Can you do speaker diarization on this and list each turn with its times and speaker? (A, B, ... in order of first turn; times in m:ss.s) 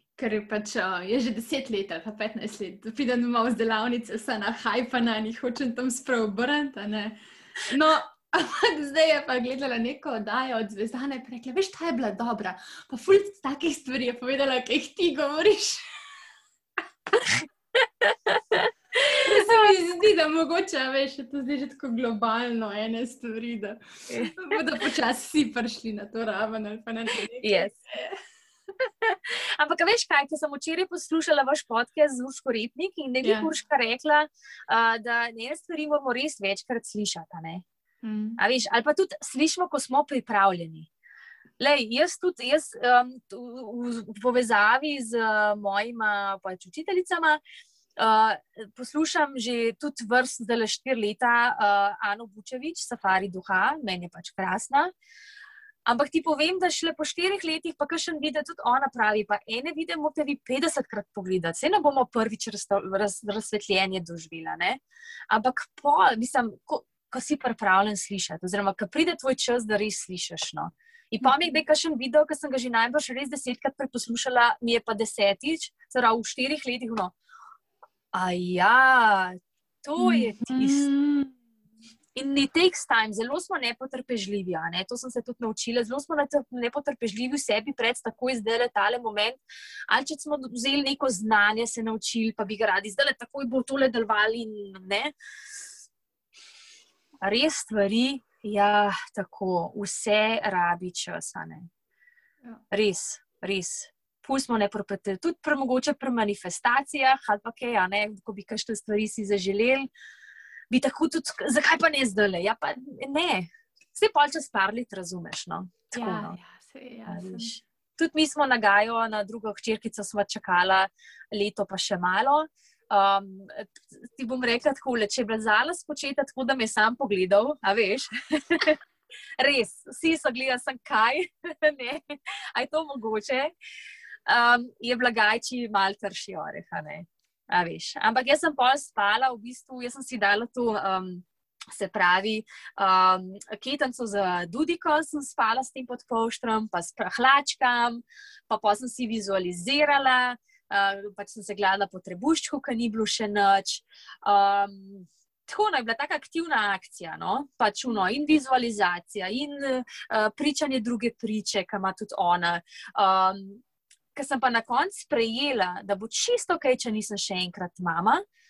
0:00.2-0:15.9 A
0:17.8-0:18.7 B
0:19.0-0:28.2 A
0:24.1-0:24.4 B
0:27.4-0:27.8 B
0:28.8-0:37.6 B
0:33.2-0:33.5 A
0:38.0-0:38.4 A
0:38.4-0:40.9 B
0:41.6-0:47.4 B
0:48.0-0:54.9 B
0:55.9-1:17.2 B
1:11.2-1:11.5 A
1:18.1-1:20.9 B
1:20.0-1:21.4 A
1:22.2-1:35.1 B
1:37.2-1:41.7 B
1:42.7-1:49.9 B
1:50.7-1:56.4 B
1:55.9-1:57.6 A
1:57.1-2:08.8 B
2:09.4-2:13.5 B
2:14.3-2:43.6 B
2:44.2-2:48.2 B